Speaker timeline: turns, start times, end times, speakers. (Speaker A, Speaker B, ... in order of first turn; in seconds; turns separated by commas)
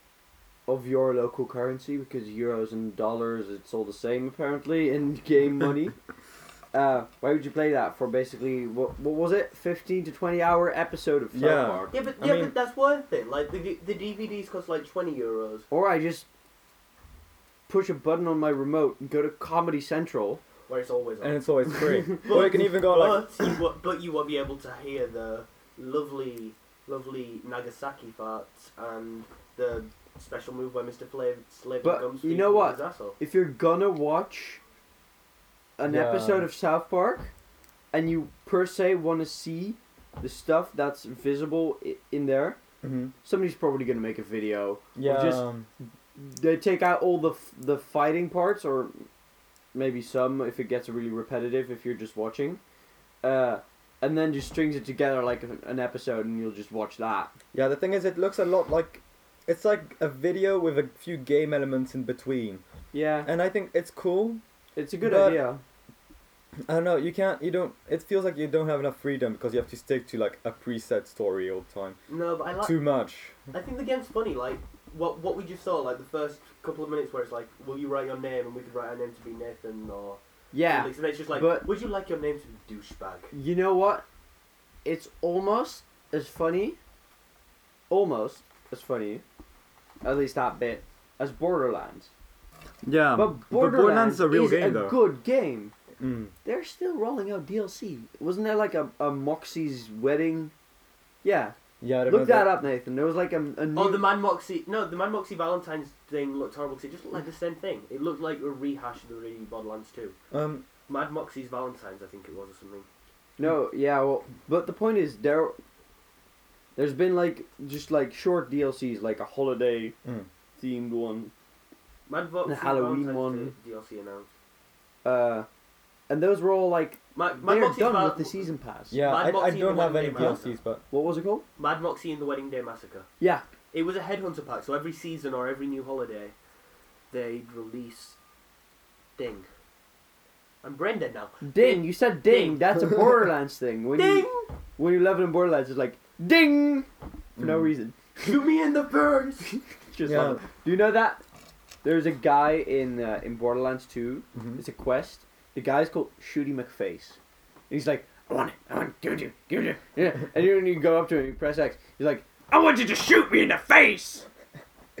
Speaker A: 0.7-6.0, Speaker A: 6.7-11.9, Speaker B: 11.3-12.5, Speaker C: 11.9-15.7, Speaker A: 15.7-16.3, Speaker A: 17.7-20.4, Speaker C: 20.7-21.4, Speaker B: 21.2-23.3, Speaker A: 21.8-22.4, Speaker C: 22.1-33.2, Speaker A: 31.8-34.6, Speaker A: 35.8-37.3, Speaker B: 35.8-36.5, Speaker A: 37.9-42.6, Speaker B: 42.8-43.1, Speaker A: 43.2-45.5, Speaker B: 45.0-45.6, Speaker A: 46.1-49.0, Speaker A: 49.7-52.6, Speaker A: 53.2-57.3, Speaker B: 57.5-62.6, Speaker A: 62.9-63.3, Speaker B: 63.2-64.4, Speaker A: 64.8-65.6, Speaker B: 65.0-65.4, Speaker B: 66.7-72.0, Speaker C: 72.1-72.8, Speaker B: 72.6-73.4, Speaker C: 73.5-83.3, Speaker A: 80.5-81.7, Speaker A: 83.3-84.0, Speaker A: 84.8-86.8, Speaker A: 87.9-89.2, Speaker A: 90.0-92.1, Speaker B: 92.8-95.0, Speaker A: 93.1-95.7, Speaker B: 96.0-96.3, Speaker A: 96.4-100.5, Speaker A: 101.2-104.1, Speaker B: 101.8-102.5, Speaker C: 103.7-110.2, Speaker B: 110.3-110.7, Speaker C: 110.9-112.9, Speaker A: 113.4-115.6, Speaker A: 116.8-120.0, Speaker A: 120.6-121.3, Speaker C: 122.1-124.3, Speaker A: 122.4-123.5, Speaker A: 125.0-125.5, Speaker A: 126.1-129.0, Speaker C: 127.1-128.4, Speaker B: 128.9-130.8, Speaker C: 129.0-130.5, Speaker A: 130.9-131.4, Speaker C: 131.6-133.1, Speaker A: 133.2-133.4, Speaker C: 133.7-136.3, Speaker C: 137.1-138.2, Speaker C: 139.2-139.5, Speaker C: 140.6-142.6, Speaker A: 141.4-148.5, Speaker C: 143.9-144.5, Speaker B: 147.4-147.7, Speaker C: 148.2-149.6, Speaker A: 149.5-151.2, Speaker B: 150.0-150.4, Speaker A: 151.8-157.2, Speaker B: 154.3-154.6, Speaker A: 157.7-164.3